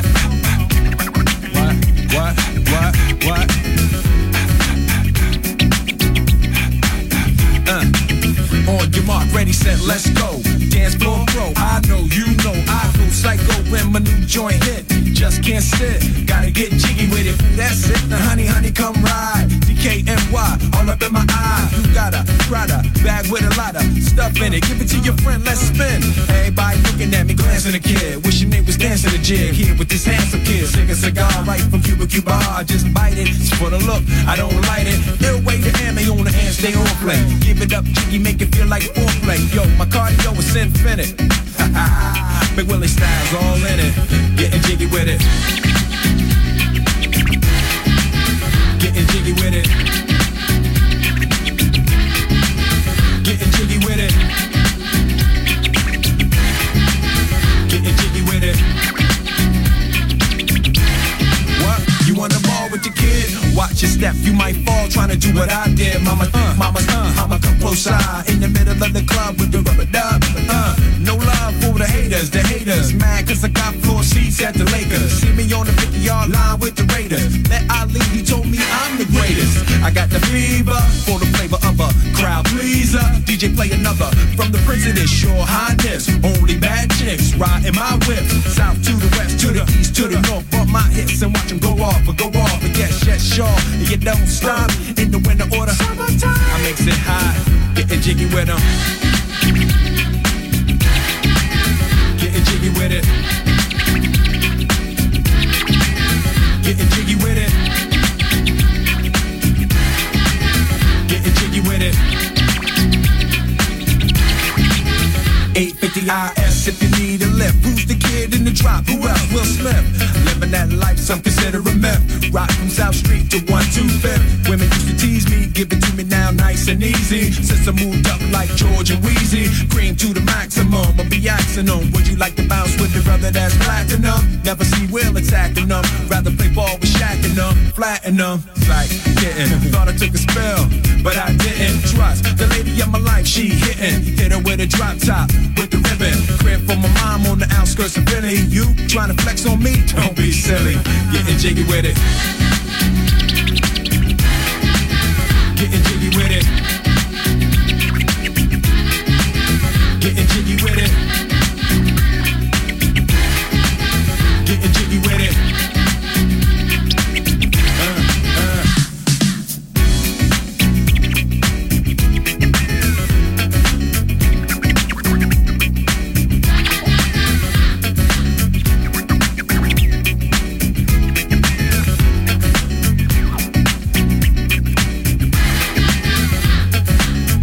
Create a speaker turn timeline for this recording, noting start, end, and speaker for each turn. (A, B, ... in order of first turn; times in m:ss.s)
0:01.5-0:03.6 A
0:07.7-0:07.9 A
0:08.6-0:45.3 A
0:48.8-0:49.8 A
0:53.2-0:54.2 A
0:57.7-0:58.6 A
1:01.6-1:38.6 A
1:42.2-1:43.1 A
1:46.6-1:47.6 A
1:51.1-1:52.0 A
1:55.5-2:32.0 A
2:35.5-2:36.5 A
2:40.0-2:41.0 A
2:44.4-2:45.4 A
2:47.8-2:48.7 A